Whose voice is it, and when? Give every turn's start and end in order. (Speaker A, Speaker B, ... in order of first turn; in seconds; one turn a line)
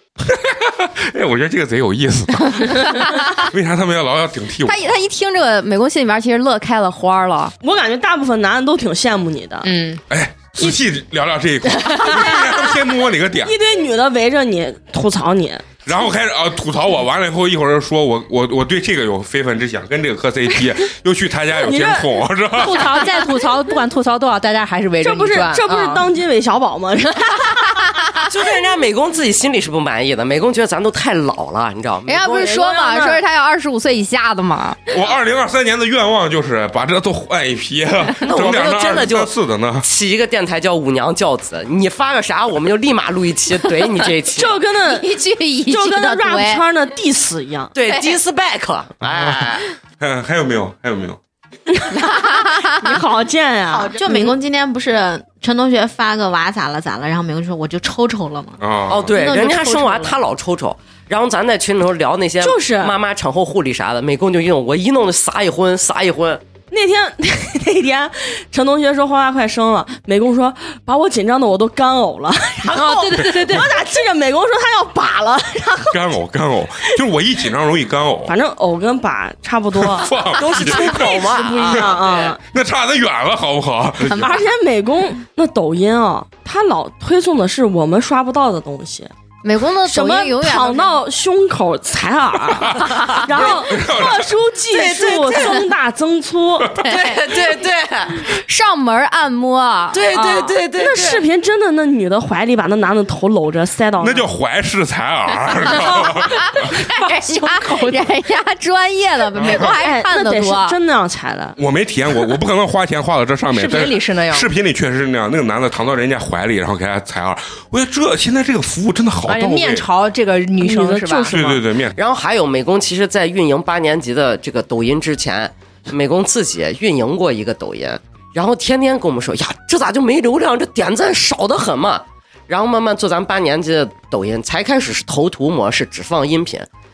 Speaker A: 0.2-4.9
Speaker B: 4.7-7.5
Speaker C: 7.6-9.7
Speaker D: 9.6-10.0
Speaker A: 10.1-13.6
Speaker C: 11.8-12.8
Speaker C: 13.4-15.7
Speaker A: 15.9-23.0
Speaker C: 21.6-23.4
Speaker D: 22.6-26.1
Speaker C: 25.0-28.0
Speaker E: 28.2-32.2
Speaker B: 32.1-34.8
Speaker C: 32.2-33.2
Speaker A: 34.9-39.9
Speaker E: 38.2-44.6
Speaker C: 44.4-45.1
Speaker B: 44.9-46.6
Speaker C: 45.7-47.7
Speaker E: 47.8-49.7
Speaker A: 49.1-51.2
Speaker C: 51.8-54.3
Speaker B: 51.9-53.0
Speaker F: 53.7-60.1
Speaker A: 58.6-59.2
Speaker E: 58.9-66.4
Speaker C: 62.4-62.9
Speaker C: 66.7-76.0
Speaker D: 72.7-73.8
Speaker A: 75.9-78.4
Speaker C: 78.3-82.4
Speaker A: 79.7-82.0
Speaker E: 80.4-82.3
Speaker A: 82.5-84.5
Speaker C: 84.1-89.1
Speaker B: 89.4-91.0
Speaker C: 89.8-96.8
Speaker A: 92.5-94.4
Speaker E: 94.7-95.7
Speaker B: 96.8-97.2
Speaker E: 96.8-98.3
Speaker B: 98.4-100.5
Speaker E: 99.9-101.2
Speaker C: 100.8-104.3
Speaker A: 104.0-106.7
Speaker B: 106.4-110.8
Speaker D: 107.0-108.1
Speaker A: 109.3-109.8
Speaker C: 109.5-111.6
Speaker A: 111.6-119.9
Speaker D: 113.5-114.5
Speaker D: 119.3-121.3
Speaker C: 120.6-121.6
Speaker A: 121.3-122.0
Speaker E: 122.0-136.7